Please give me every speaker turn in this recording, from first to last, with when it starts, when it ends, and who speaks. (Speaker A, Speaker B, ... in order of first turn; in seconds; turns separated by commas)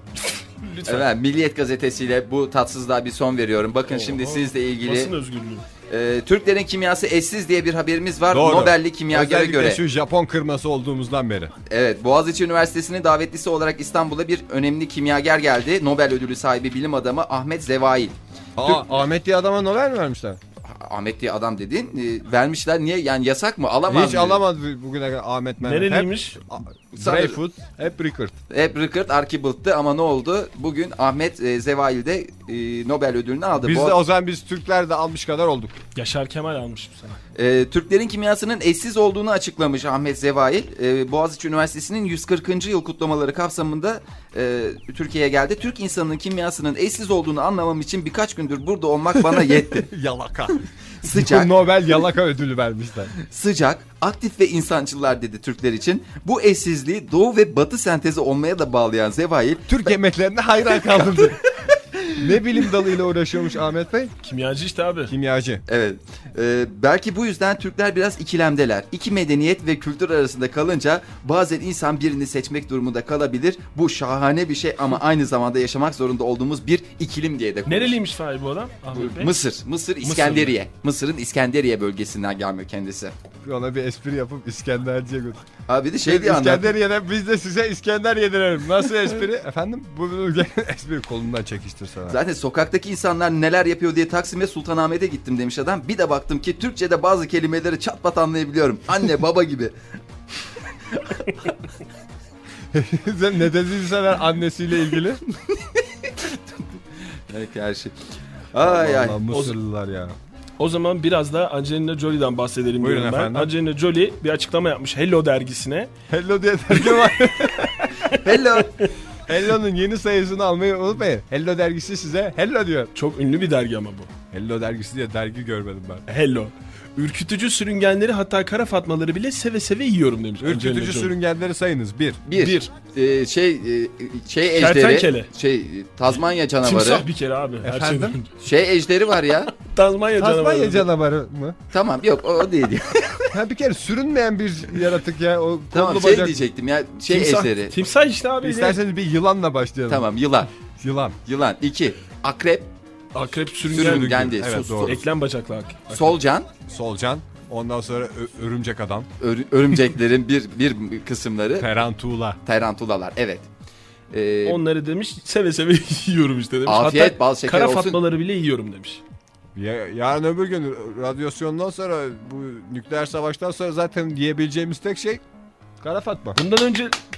Speaker A: 0.2-1.1, Speaker B: 0.9-5.1, Speaker A: 3.9-5.7, Speaker B: 5.9-9.8, Speaker C: 8.3-11.5, Speaker B: 11.7-18.1, Speaker C: 18.6-20.4, Speaker B: 20.6-24.4, Speaker C: 23.9-28.4, Speaker A: 25.6-26.4, Speaker B: 26.9-27.4, Speaker B: 28.5-34.0, Speaker C: 33.6-35.8, Speaker A: 36.0-37.2, Speaker B: 37.4-49.9, Speaker C: 49.1-53.1, Speaker B: 51.0-51.5, Speaker B: 53.2-59.8, Speaker C: 59.7-61.4, Speaker B: 60.8-61.2, Speaker B: 61.9-62.6, Speaker C: 62.1-64.1, Speaker A: 64.2-65.1, Speaker C: 65.1-65.6, Speaker B: 65.7-78.0, Speaker A: 77.7-79.4, Speaker B: 78.9-83.1, Speaker A: 80.0-80.6, Speaker C: 83.4-85.5, Speaker B: 85.7-86.7, Speaker C: 86.0-92.2, Speaker B: 92.1-99.8, Speaker C: 102.7-105.2, Speaker B: 105.3-107.9, Speaker B: 108.5-109.2, Speaker C: 108.6-110.2, Speaker A: 109.3-109.6, Speaker A: 110.6-115.9, Speaker C: 112.8-113.5, Speaker C: 116.1-118.1, Speaker A: 118.1-118.9, Speaker B: 118.2-118.9, Speaker C: 119.3-122.9, Speaker A: 123.0-124.1, Speaker C: 124.3-126.0, Speaker A: 126.1-131.2, Speaker C: 130.4-132.5, Speaker B: 132.3-137.1, Speaker A: 134.5-135.3, Speaker A: 136.6-138.3, Speaker C: 137.6-138.2, Speaker B: 138.4-139.5, Speaker A: 139.5-140.9, Speaker C: 140.2-141.6, Speaker B: 141.7-143.3, Speaker C: 143.3-146.4, Speaker B: 145.7-147.7, Speaker A: 147.1-148.8, Speaker C: 148.4-151.2, Speaker B: 149.9-150.5, Speaker B: 151.3-152.7, Speaker A: 153.1-156.2, Speaker B: 153.7-155.0, Speaker C: 153.7-155.0, Speaker B: 155.9-156.5, Speaker C: 156.7-159.1, Speaker B: 159.2-161.7, Speaker C: 161.6-162.4, Speaker B: 162.4-163.5, Speaker B: 164.1-164.6, Speaker A: 164.5-169.0, Speaker B: 166.7-168.0, Speaker C: 169.6-175.2, Speaker C: 175.8-176.4, Speaker A: 176.3-177.0